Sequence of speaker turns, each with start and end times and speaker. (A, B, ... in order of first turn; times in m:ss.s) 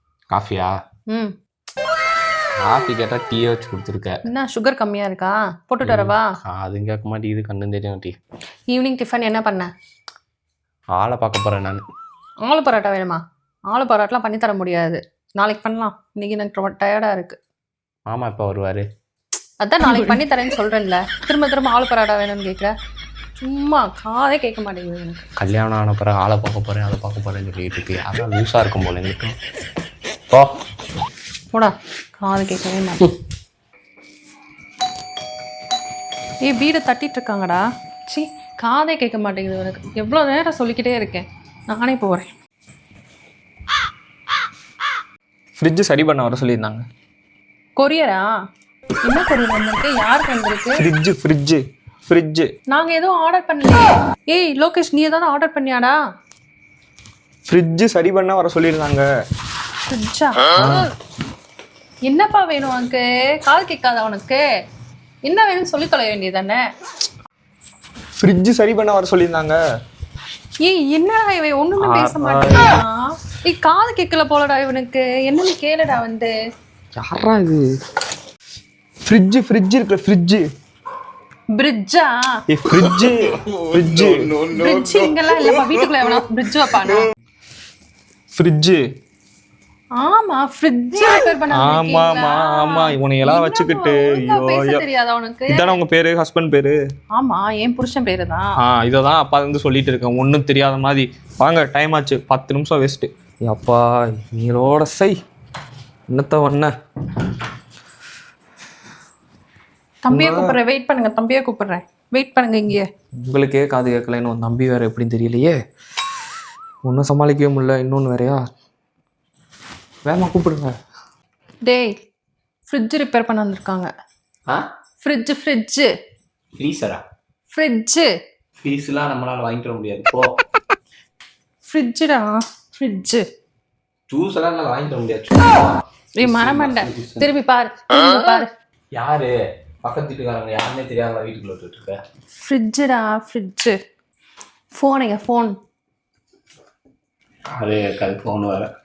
0:00.3-0:00.8 A
0:02.6-0:04.2 A
0:04.2-0:06.3 B
0:05.8-0:08.1 A
0:08.7-0:09.7 B
0:10.9-0:11.8 A
0:12.4-0:17.4 B
0:18.1-0:18.8 A
0:19.6-0:22.7 B
0:23.4-0:25.2 B
0:25.4-0:29.4 A
0:31.5-0:33.1 B
0:36.4-0:42.3 B
0:45.6-0:46.8 C
0:47.8-0:48.3 B
0:49.0-0:50.8 B
0:50.8-0:52.5 C
0:52.7-0:56.0 B
0:57.5-0:59.1 C
0:59.9-1:00.9 B
1:00.6-1:00.9 C
1:02.0-1:04.4 B
1:05.2-1:06.6 B
1:08.2-1:09.6 C
1:10.6-1:16.3 B
1:11.8-1:12.7 C
1:17.0-1:17.6 C
1:19.0-1:20.4 C
1:21.5-1:22.3 B
1:22.5-1:24.4 C
1:24.4-1:27.0 B
1:28.3-1:28.8 C
1:30.0-1:35.8 B
1:31.5-1:34.8 C
1:35.5-1:36.8 C
1:37.1-1:38.5 B
1:38.6-1:45.2 C
1:46.1-1:46.7 C
1:50.0-1:52.8 B
1:50.1-1:50.6 C
1:53.2-1:55.6 C
1:56.8-1:58.4 C
2:00.0-2:00.7 C
2:01.6-2:02.0 B
2:02.7-2:03.9 B
2:05.0-2:05.9 B
2:06.6-2:07.0 A
2:07.5-2:08.1 B
2:08.6-2:10.3 A
2:11.7-2:13.2 B
2:14.1-2:17.3 A
2:16.2-2:18.5 B
2:18.9-2:22.0 A
2:22.4-2:23.8 B
2:24.7-2:25.5 B
2:27.5-2:28.7 A